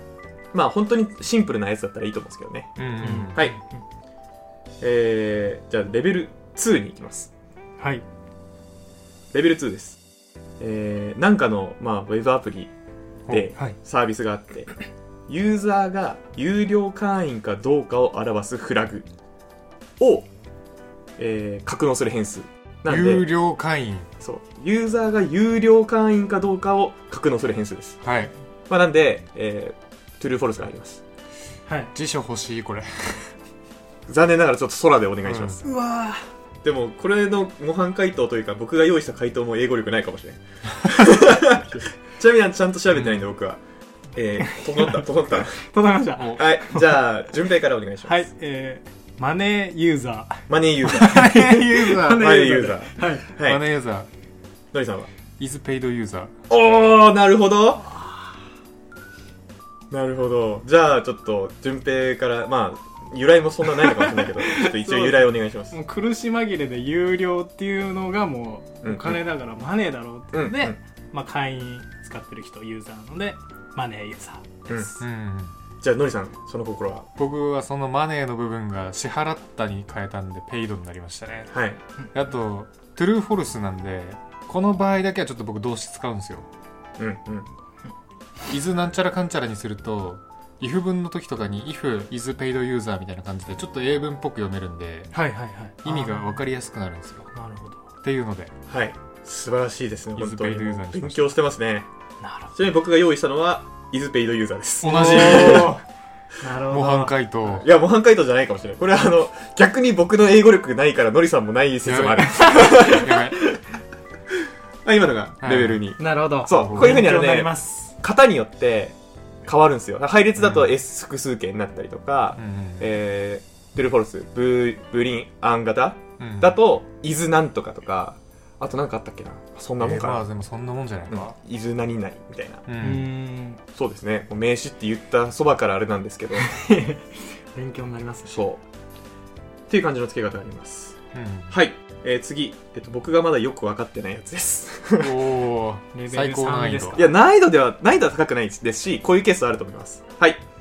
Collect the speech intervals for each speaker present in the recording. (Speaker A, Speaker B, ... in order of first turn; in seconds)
Speaker A: 0.5-2.8, 4.8-7.3, 9.3-10.0, 10.6-12.7, 13.3-14.7, 15.3-19.1, 20.0-20.3, 21.2-23.2, 24.2-28.0, 28.7-31.0, 34.1-35.6, 36.6-43.6, 44.1-45.6, 46.3-48.2, 50.5-51.3, 52.1-53.6, 54.7-55.1, 56.5-57.9, 59.9-65.8, 68.8-69.2, 70.3-70.8, 75.8-77.1, 81.5-81.8, 87.0-87.5, 98.7-101.9, 102.5-105.8, 107.5-113.6, 114.8-130.3, 131.1-132.6, 133.7-136.5, 138.2-138.6, 139.7-140.9, 141.5-145.3, 146.9-150.4
Speaker B: 2.8-3.4, 22.9-24.1, 28.0-28.3, 31.9-33.3, 35.2-35.6, 42.9-43.2, 51.0-52.3, 53.4-54.1, 55.4-56.3, 75.0-75.5, 77.2-81.5, 82.1-86.5, 88.5-95.1, 95.8-97.3, 98.0-98.5, 100.1-101.3, 104.8-105.8, 106.7-107.7, 111.8-113.4, 115.4-115.8, 116.5-117.1, 120.4-120.7, 122.3-122.9, 126.2-126.5, 129.8-131.3, 132.7-133.1, 141.1-141.6, 145.0-147.0
Speaker C: 3.0-3.8, 7.8-8.0, 31.7-31.9, 35.6-36.3, 44.4-47.2, 48.0-53.3, 57.9-58.3, 63.8-75.0, 95.1-96.4, 97.3-97.9, 102.2-102.5, 104.8-105.8, 106.4-107.1, 112.4-112.9, 116.0-117.9, 132.8-133.6, 136.3-138.3, 145.9-147.1